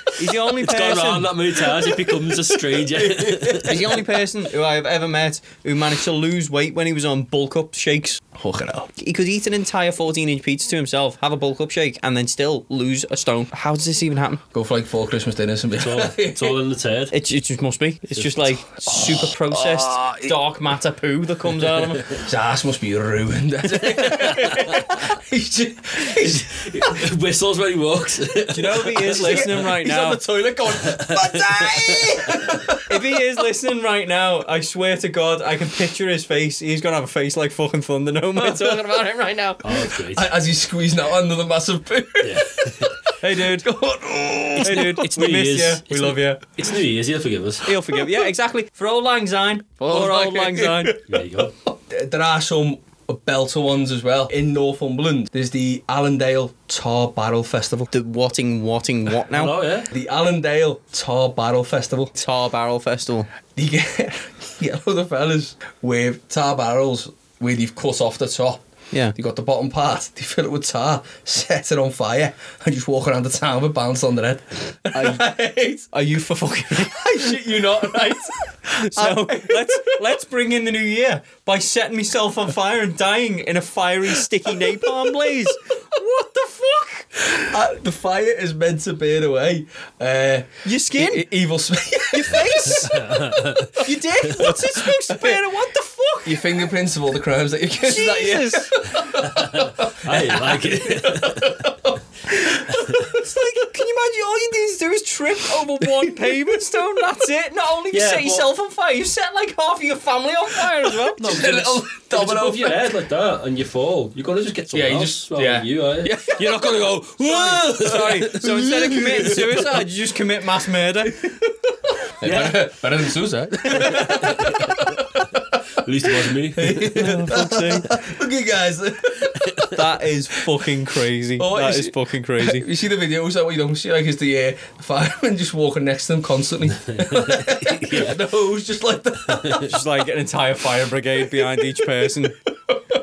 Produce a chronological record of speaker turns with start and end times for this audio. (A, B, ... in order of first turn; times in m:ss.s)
0:00.2-0:01.3 A
0:00.6-0:03.8 B
0:01.6-0:04.0 C
0:03.6-0:08.2 A
0:08.3-0:08.9 C
0:09.0-0:14.4 A
0:14.5-0:16.6 C
0:15.8-0:17.1 B
0:17.1-0:22.0 A
0:18.2-0:18.5 B
0:18.9-0:20.4 C
0:22.2-0:27.0 C
0:24.3-0:24.7 B
0:26.1-0:29.6 B
0:28.5-0:30.2 A
0:28.7-0:33.0 C
0:30.9-0:32.2 B
0:32.9-0:39.6 A
0:38.4-0:38.9 C
0:39.6-0:40.3 B
0:39.8-0:45.0 C
0:42.2-0:42.9 B
0:43.2-0:43.7 A
0:44.6-0:46.4 A
0:44.9-0:47.6 B
0:47.6-0:51.0 A
0:47.9-0:48.3 C
0:49.8-0:57.9 C
0:51.1-0:51.5 B
0:57.9-0:59.5 A
0:59.3-0:59.9 B
0:59.9-1:02.1 C
1:02.1-1:03.3 A
1:03.6-1:08.6 C
1:09.1-1:15.9 C
1:14.9-1:15.2 A
1:15.9-1:17.3 A
1:16.8-1:20.1 C
1:18.8-1:27.1 A
1:27.2-1:33.4 C
1:30.6-1:31.2 A
1:32.1-1:33.0 A
1:32.9-1:33.6 B
1:33.8-1:36.4 A
1:34.2-1:35.4 C
1:36.2-1:43.2 C
1:37.8-1:38.7 A
1:39.3-1:41.5 B
1:43.0-1:51.2 A
1:47.9-1:48.5 B
1:51.2-1:52.8 C
1:51.2-1:56.2 B
1:54.7-1:59.8 C
1:57.3-1:57.7 B
1:57.4-2:01.3 A
2:01.0-2:01.5 C
2:02.0-2:09.7 C
2:02.2-2:02.7 B
2:03.8-2:04.8 B
2:05.8-2:06.9 B
2:06.9-2:07.9 A
2:09.7-2:12.6 A
2:11.4-2:19.8 C
2:17.2-2:18.1 B
2:19.3-2:19.6 B
2:19.6-2:22.4 A
2:21.4-2:21.7 C